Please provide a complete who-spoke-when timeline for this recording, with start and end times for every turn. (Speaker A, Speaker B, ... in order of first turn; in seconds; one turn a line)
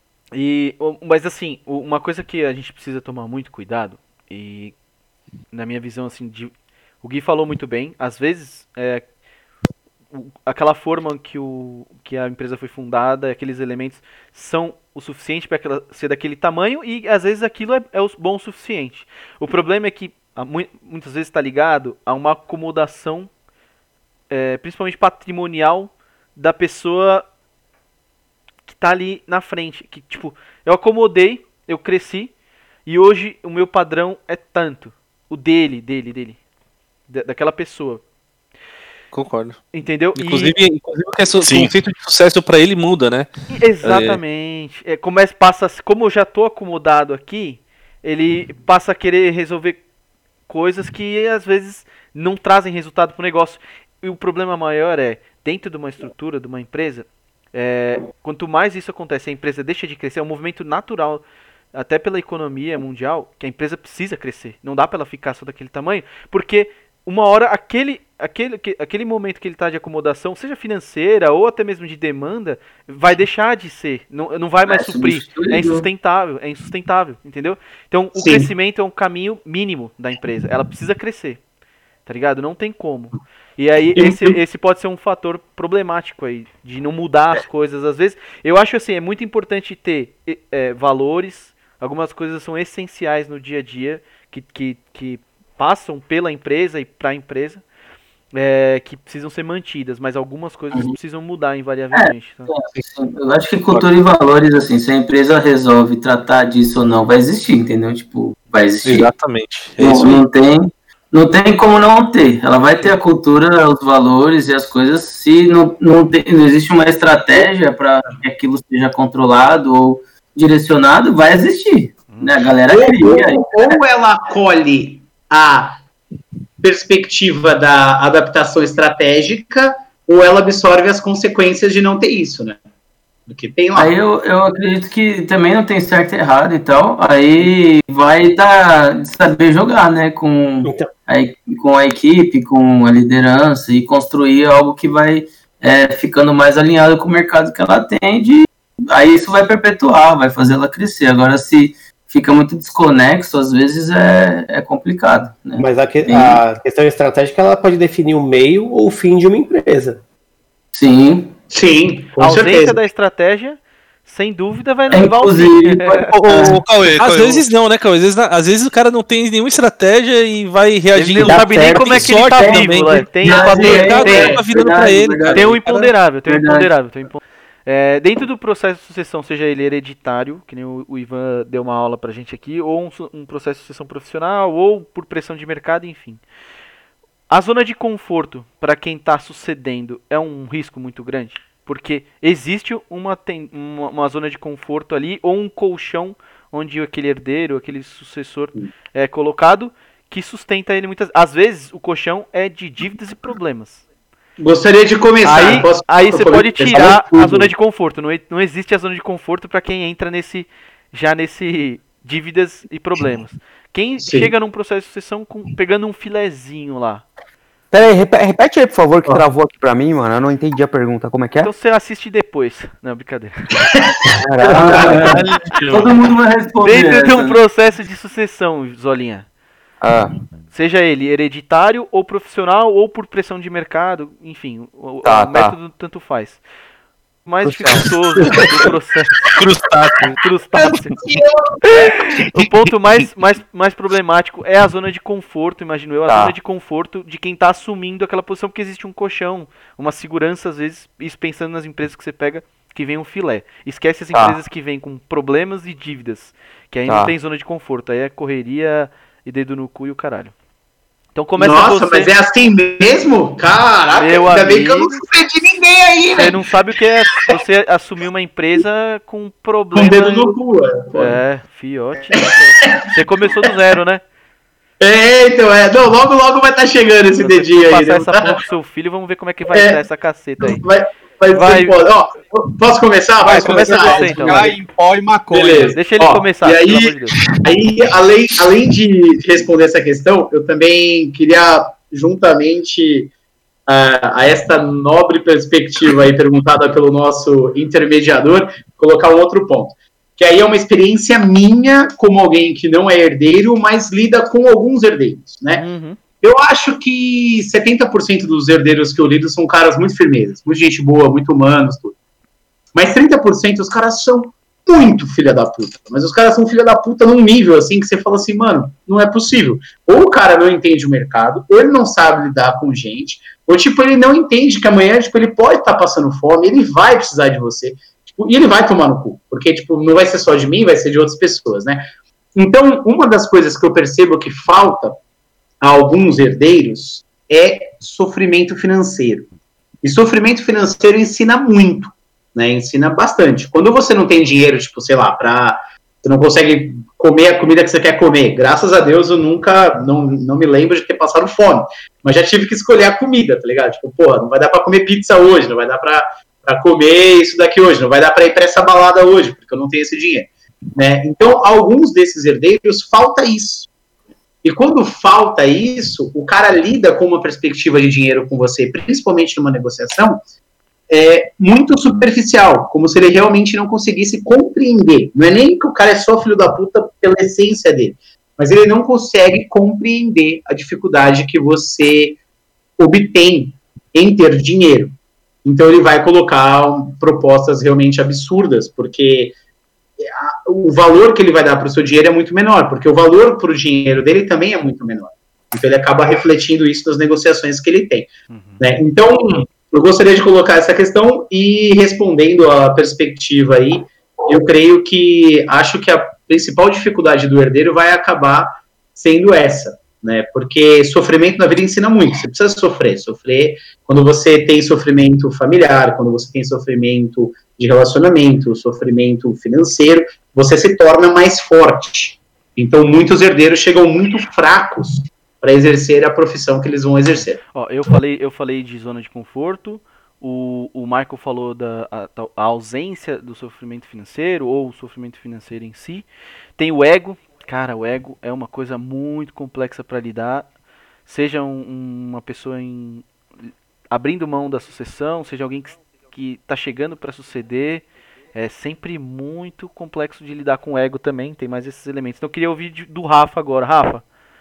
Speaker A: 0.3-4.7
Speaker A: 5.5-6.5
Speaker A: 7.0-9.0
Speaker A: 10.1-23.3
Speaker A: 24.3-27.2
Speaker A: 28.7-32.3
Speaker A: 32.9-36.4
Speaker A: 37.1-38.0
Speaker B: 39.1-39.6
Speaker A: 39.7-40.5
Speaker B: 40.1-43.3
Speaker C: 41.4-41.7
Speaker A: 43.5-49.8
Speaker B: 43.8-44.2
Speaker A: 50.5-61.2
Speaker A: 61.7-81.4
Speaker D: 74.7-75.8
Speaker E: 78.1-78.5
Speaker A: 82.0-97.6
Speaker E: 84.0-84.4
Speaker A: 98.3-102.5
Speaker D: 101.9-109.1
Speaker B: 108.8-110.2
Speaker D: 109.8-123.5
Speaker E: 122.7-125.8
Speaker E: 126.6-132.6
Speaker E: 133.3-133.9
Speaker D: 133.7-156.4
Speaker F: 140.7-140.9
Speaker F: 155.6-160.0
Speaker D: 160.7-161.3
Speaker E: 161.5-162.8
Speaker A: 162.2-166.1
Speaker D: 164.9-166.6
Speaker B: 166.1-175.9
Speaker C: 166.1-167.5
Speaker A: 170.9-174.4
Speaker F: 171.2-172.6
Speaker E: 173.2-174.4
Speaker D: 173.2-175.6
Speaker A: 175.3-186.2
Speaker D: 176.2-176.7
Speaker A: 187.3-203.8
Speaker E: 204.4-207.0
Speaker A: 205.2-217.1
Speaker F: 207.2-207.5
Speaker E: 214.0-214.3
Speaker G: 217.7-221.5
Speaker A: 221.4-223.4
Speaker E: 223.6-225.1
Speaker G: 224.2-225.2
Speaker D: 224.5-227.4
Speaker C: 224.9-225.9
Speaker A: 226.6-229.2
Speaker G: 229.8-230.1
Speaker A: 230.5-236.4
Speaker G: 235.0-235.6
Speaker A: 237.2-239.2
Speaker G: 237.4-238.3
Speaker C: 239.3-240.2
Speaker A: 240.2-241.0
Speaker E: 241.0-241.9
Speaker A: 241.6-260.3
Speaker G: 246.1-246.3
Speaker G: 256.9-257.1
Speaker A: 261.1-262.1
Speaker E: 261.4-266.4
Speaker A: 263.9-265.0
Speaker A: 266.1-270.4
Speaker E: 269.7-271.2
Speaker A: 270.9-274.0
Speaker E: 272.1-272.9
Speaker E: 274.8-278.4
Speaker A: 277.2-280.6
Speaker E: 279.5-279.8
Speaker E: 280.4-284.5
Speaker A: 281.3-281.8
Speaker H: 283.2-285.7
Speaker A: 283.2-284.6
Speaker E: 285.3-293.1
Speaker A: 285.7-287.2
Speaker E: 293.7-305.6
Speaker A: 305.5-306.0
Speaker E: 306.2-311.9
Speaker E: 312.7-335.0
Speaker E: 335.6-339.3
Speaker E: 339.8-363.7
Speaker E: 364.4-370.2
Speaker E: 370.9-382.2
Speaker E: 382.8-384.9
Speaker E: 385.4-389.4
Speaker E: 390.0-427.4
Speaker A: 398.3-398.6
Speaker A: 427.5-440.5
Speaker A: 441.1-443.1
Speaker A: 443.9-454.0